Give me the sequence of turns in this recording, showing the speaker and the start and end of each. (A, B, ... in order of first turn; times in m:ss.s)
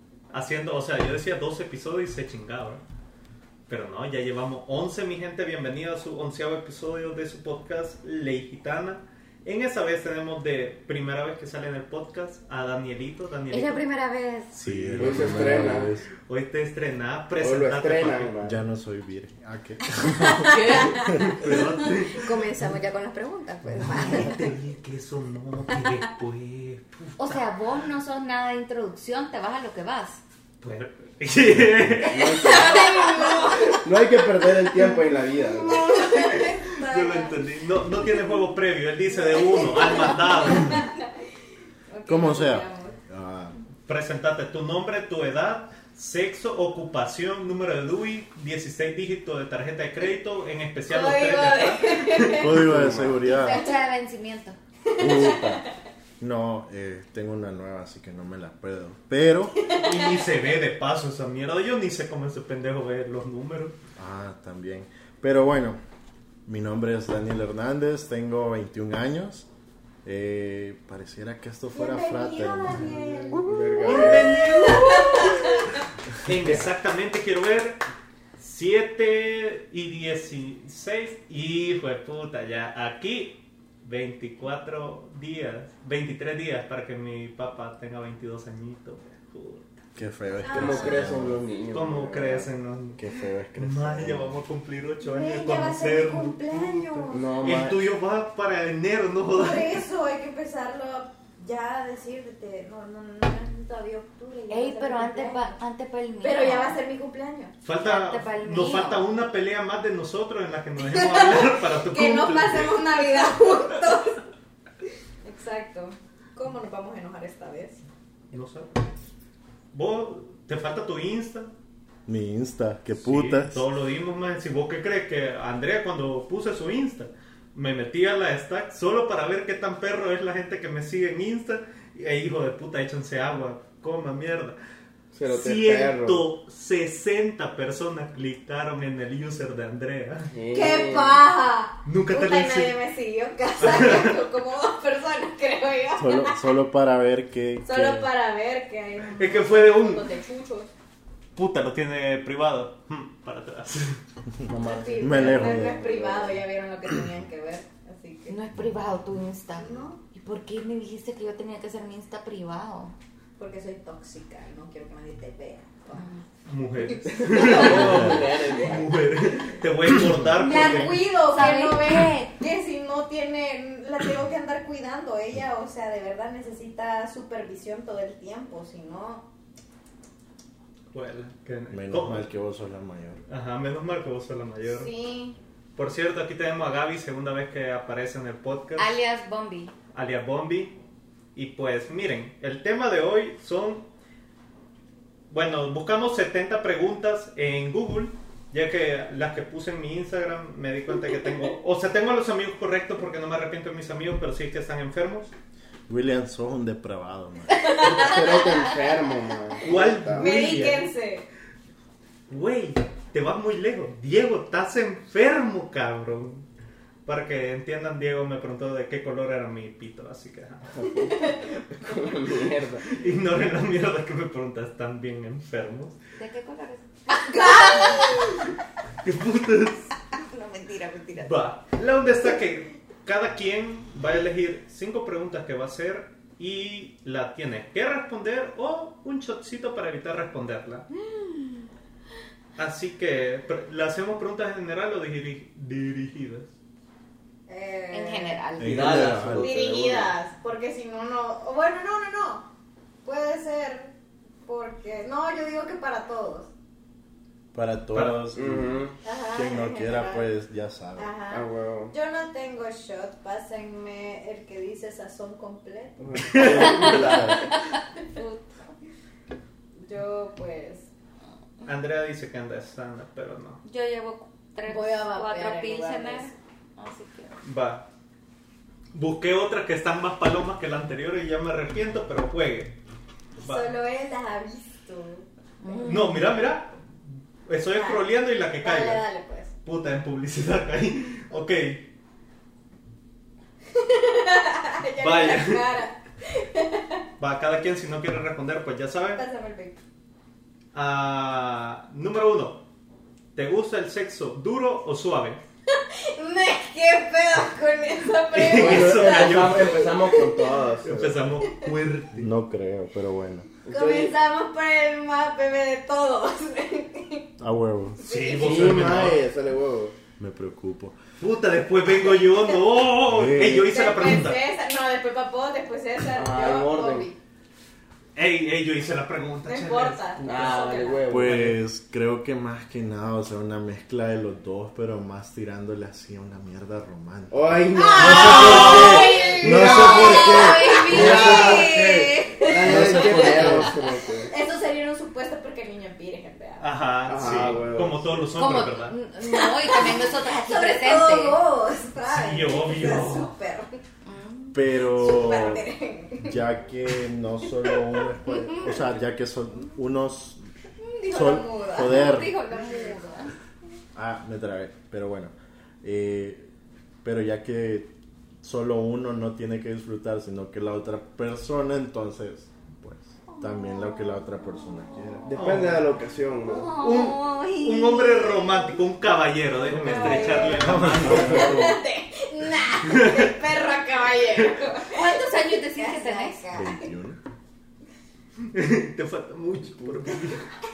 0:00.3-0:02.8 A
0:03.7-0:13.8 A
0:13.5-0:14.5 B
0:13.6-0:14.3 C
0:14.5-0:18.3 A
0:14.6-0:16.1 D
0:15.0-0:15.9 E
0:17.4-0:18.6 E
0:18.4-0:21.3 D
0:20.2-0:24.5 B
0:20.4-0:21.0 C
0:21.2-0:22.4 A
0:23.8-0:27.4 A
0:27.2-0:30.2 C
0:30.6-0:32.6 A
0:31.5-0:32.0 D
0:32.1-0:32.8 E
0:32.4-0:33.9 B
0:33.7-0:36.0 E
0:35.6-0:37.4 B
0:36.0-0:40.8 A
0:39.3-0:41.1 B
0:41.9-0:43.0 B
0:42.1-0:43.6 D
0:43.9-0:52.5 A
0:50.9-0:52.6 B
0:52.3-0:53.7 D
0:52.5-0:53.2 E
0:53.2-0:54.6 C
0:53.3-0:53.7 B
0:54.9-0:55.7 B
0:55.0-0:55.6 D
0:56.2-0:59.6 D
0:59.6-1:00.2 B
0:59.7-1:03.8 A
1:04.0-1:05.8 D
1:06.5-1:09.5 D
1:10.0-1:13.5 D
1:11.7-1:15.7 B
1:13.3-1:14.5 E
1:13.8-1:15.5 A
1:16.2-1:17.8 A
1:18.4-1:29.8 A
1:30.0-1:31.4 D
1:30.4-1:31.1 B
1:30.5-1:32.5 E
1:31.7-1:36.4 A
1:33.0-1:34.4 D
1:35.0-1:37.3 B
1:37.1-1:37.8 E
1:37.4-1:39.8 A
1:39.3-1:45.6 B
1:44.5-1:46.8 C
1:46.2-1:47.5 B
1:47.6-1:53.3 A
1:47.8-1:49.1 C
1:50.8-1:54.2 B
1:55.2-1:57.8 B
1:58.3-1:58.7 A
1:59.7-2:01.5 A
2:02.1-2:03.6 D
2:03.0-2:14.6 A
2:15.1-2:16.2 E
2:15.3-2:20.3 A
2:20.3-2:21.2 E
2:20.5-2:26.5 B
2:21.8-2:22.8 A
2:23.6-2:24.2 A
2:26.0-2:28.1 D
2:27.6-2:30.7 B
2:29.2-2:30.0 A
2:31.4-2:34.0 A
2:34.5-2:36.4 E
2:34.6-2:38.4 B
2:35.0-2:35.8 D
2:38.3-2:42.9 C
2:38.6-2:38.8 D
2:39.6-2:40.0 B
2:43.4-2:46.2 B
2:46.4-2:51.0 A
2:46.8-2:48.8 B
2:47.1-2:49.1 E
2:47.7-2:48.3 D
2:50.0-2:50.3 D
2:50.4-2:59.3 B
2:50.5-2:52.1 C
3:00.9-3:02.3 A
3:01.7-3:03.2 D
3:03.3-3:04.9 A
3:04.7-3:05.4 B
3:05.8-3:09.0 A
3:08.8-3:09.7 C
3:09.9-3:10.8 A
3:11.4-3:13.9 A
3:15.3-3:25.3 A
3:25.9-3:28.1 D
3:27.6-3:27.9 B
3:27.8-3:30.3 E
3:29.6-3:30.9 A
3:30.1-3:31.2 B
3:32.3-3:36.5 A
3:37.0-3:40.7 A
3:40.7-3:42.8 E
3:41.0-3:41.4 B
3:42.8-3:46.0 A
3:46.2-3:48.2 C
3:47.1-3:48.4 B
3:48.0-3:48.3 A
3:49.0-3:49.9 A
3:50.1-3:51.3 C
3:51.1-4:00.9 A
4:01.1-4:01.5 B
4:02.6-4:06.5 A
4:07.5-4:08.5 B
4:07.9-4:09.2 C
4:08.6-4:09.6 D
4:08.6-4:10.1 E
4:09.3-4:12.5 B
4:13.0-4:13.9 B
4:14.5-4:16.5 B
4:17.5-4:21.1 D
4:17.9-4:18.4 A
4:18.4-4:19.0 E
4:19.0-4:20.3 B
4:21.0-4:27.2 B
4:21.3-4:21.9 E
4:26.0-4:27.5 E
4:26.4-4:27.5 D
4:26.4-4:26.7 A
4:26.5-4:28.5 C
4:29.8-4:30.9 B
4:31.6-4:33.6 A
4:33.6-4:37.4 C
4:34.6-4:36.4 B
4:37.4-4:37.9 A
4:38.9-4:42.8 A
4:43.4-4:46.1 B
4:43.4-4:43.7 A
4:45.6-4:46.3 C
4:45.8-4:46.9 A
4:47.5-4:49.1 A
4:47.7-4:48.1 B
4:48.6-4:49.5 B
4:49.6-4:51.8 A
4:53.7-4:57.0 B
4:55.0-4:55.7 A
4:57.2-4:59.2 A
4:59.1-4:59.8 B
5:00.7-5:02.6 A
5:03.4-5:05.4 A
5:05.8-5:10.6 B
5:08.3-5:09.9 A
5:08.5-5:11.2 E
5:10.8-5:12.3 A
5:12.2-5:13.5 D
5:13.7-5:14.1 E
5:13.7-5:17.3 B
5:17.4-5:18.0 D
5:18.0-5:18.8 B
5:18.0-5:19.2 A
5:18.3-5:20.0 E
5:20.2-5:21.0 D
5:21.2-5:24.4 A
5:23.1-5:24.3 D
5:23.5-5:27.2 B
5:26.1-5:27.1 E
5:28.2-5:31.5 A
5:29.5-5:31.1 B
5:30.2-5:31.5 E
5:31.1-5:41.8 D
5:37.3-5:44.3 E
5:37.7-5:46.7 B
5:38.1-5:39.0 A
5:39.5-5:43.2 C
5:42.6-5:43.7 D
5:46.6-5:49.0 A
5:47.1-5:48.3 E
5:48.4-5:51.4 C
5:49.2-5:53.8 B
5:52.1-5:53.3 A
5:54.0-5:54.6 C
5:54.5-5:55.6 D
5:54.9-5:56.4 B
5:56.2-6:00.4 D
5:57.6-5:58.0 B
6:00.8-6:03.3 B
6:01.1-6:02.4 D
6:01.8-6:03.3 C
6:03.9-6:06.5 D
6:07.0-6:07.9 D
6:08.4-6:15.3 D
6:13.4-6:14.0 C
6:15.3-6:16.8 E
6:15.3-6:15.9 A
6:16.7-6:18.8 B
6:16.7-6:21.6 A
6:16.7-6:17.4 C
6:19.7-6:21.8 E
6:19.7-6:26.9 B
6:20.7-6:21.4 D
6:22.9-6:23.3 A
6:24.8-6:26.4 C
6:26.5-6:27.2 D
6:28.5-6:30.5 A